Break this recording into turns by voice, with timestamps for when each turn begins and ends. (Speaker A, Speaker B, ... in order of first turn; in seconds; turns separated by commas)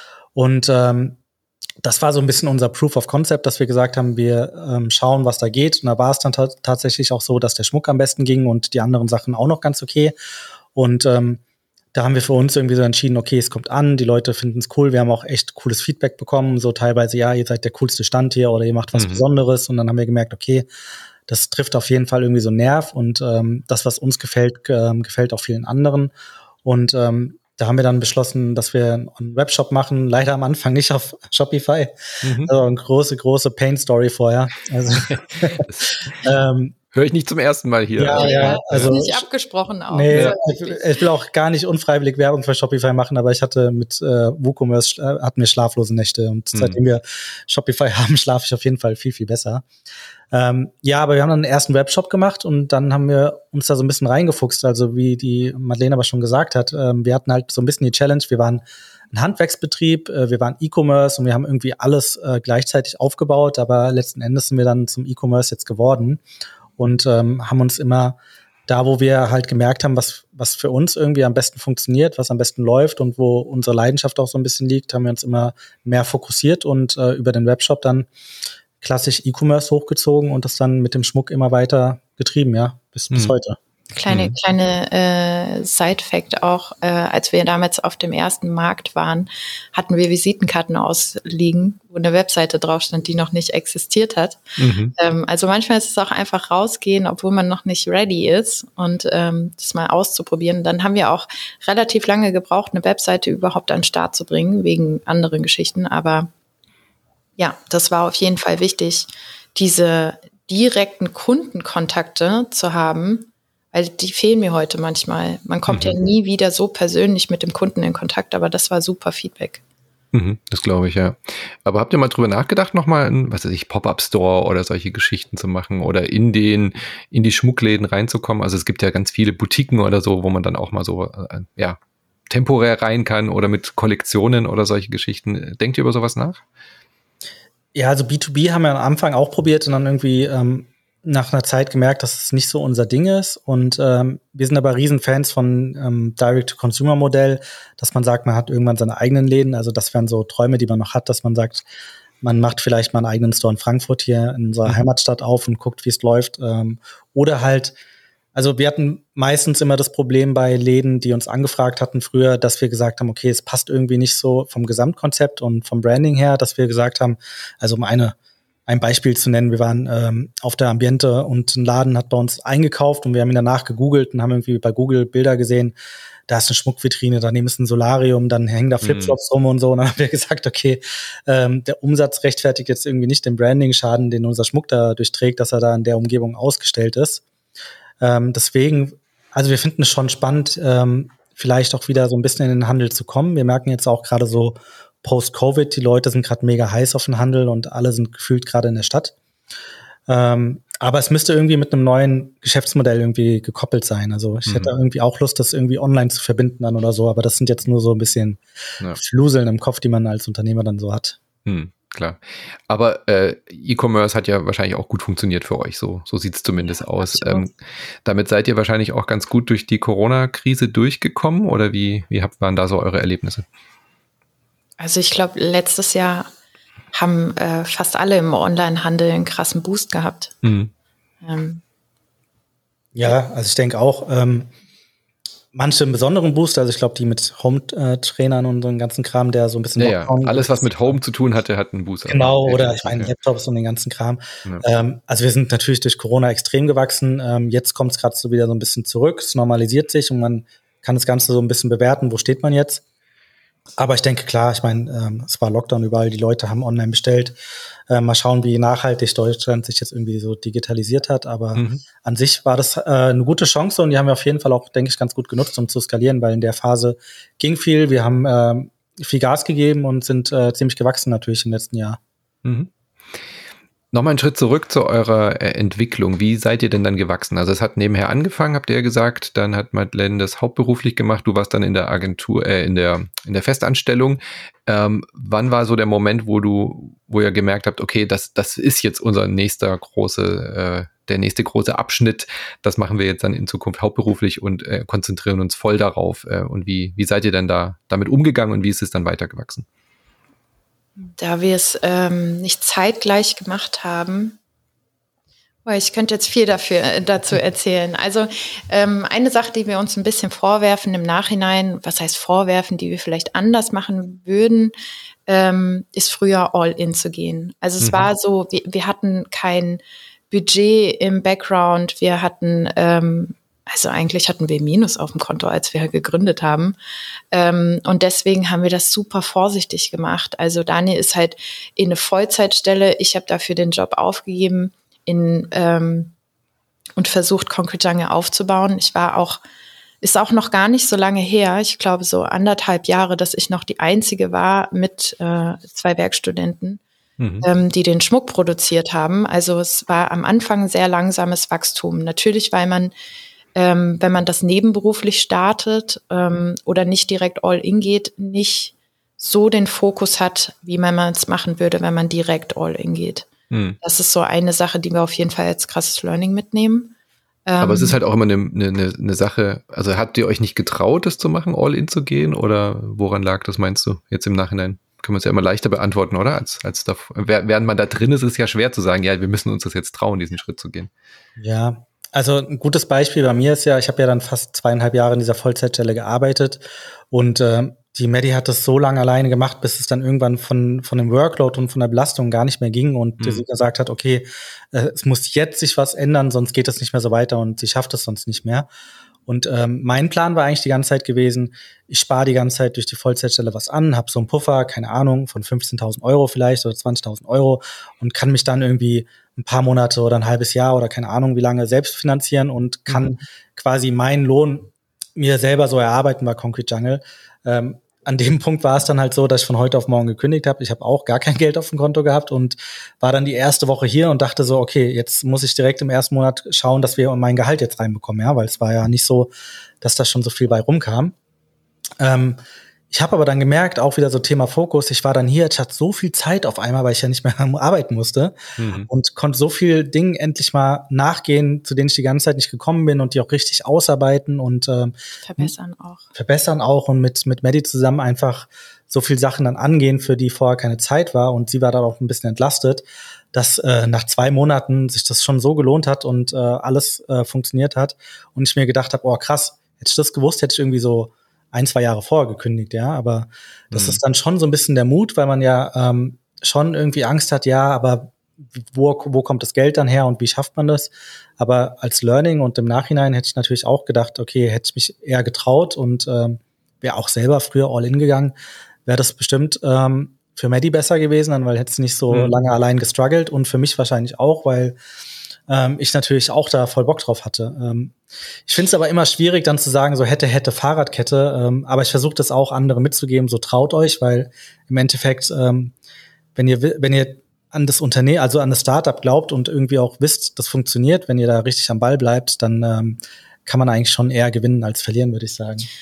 Speaker A: 0.3-1.2, Speaker A: 1.8-10.2, Speaker A: 10.8-11.4, Speaker A: 11.9-20.7, Speaker B: 18.9-19.2, Speaker A: 21.3-26.1, Speaker A: 26.6-36.8, Speaker B: 32.2-32.5, Speaker B: 35.1-36.1, Speaker B: 36.9-39.0, Speaker A: 38.0-39.3, Speaker C: 38.1-41.0, Speaker A: 39.9-49.7, Speaker B: 46.5-46.8, Speaker A: 50.3-66.2, Speaker A: 66.8-78.1, Speaker A: 78.8-83.6, Speaker C: 83.9-94.4, Speaker B: 84.1-84.3, Speaker B: 94.6-94.9, Speaker C: 95.0-106.3, Speaker C: 107.4-119.6, Speaker B: 115.7-116.0, Speaker B: 120.1-131.8, Speaker B: 132.3-136.4, Speaker A: 137.8-151.7, Speaker A: 152.2-157.8, Speaker A: 158.3-168.2, Speaker A: 168.7-175.8, Speaker A: 176.3-187.2, Speaker B: 178.8-179.2, Speaker A: 188.0-199.2, Speaker A: 200.1-208.4, Speaker B: 204.5-204.7, Speaker A: 209.0-211.2, Speaker B: 211.5-217.5, Speaker C: 216.6-217.5, Speaker B: 218.1-223.4, Speaker C: 224.8-226.3, Speaker C: 226.9-230.3, Speaker B: 230.4-230.7, Speaker C: 231.2-231.6, Speaker A: 232.9-234.5, Speaker A: 235.5-241.0, Speaker B: 239.8-243.1, Speaker A: 242.1-252.8, Speaker A: 253.8-257.4, Speaker A: 257.9-272.0, Speaker B: 261.6-261.8, Speaker B: 272.4-272.7, Speaker B: 273.9-299.7, Speaker C: 301.0-304.4, Speaker C: 305.7-314.7, Speaker C: 315.3-326.8, Speaker B: 317.8-318.1, Speaker C: 327.3-336.1, Speaker C: 337.0-339.4, Speaker C: 340.0-346.8, Speaker B: 347.2-347.5, Speaker C: 347.4-352.9, Speaker C: 353.6-363.3, Speaker B: 363.5-363.8, Speaker C: 363.8-366.9, Speaker C: 367.5-368.0, Speaker B: 367.6-380.9, Speaker A: 381.4-398.7, Speaker A: 399.3-431.1, Speaker B: 412.9-413.2, Speaker A: 432.0-432.4, Speaker A: 432.9-445.5, Speaker B: 438.6-438.9, Speaker C: 445.2-446.1, Speaker A: 446.1-478.4, Speaker B: 463.7-464.0, Speaker A: 478.9-484.8, Speaker B: 482.1-482.4, Speaker A: 485.5-488.0, Speaker A: 488.5-495.8, Speaker A: 496.4-505.7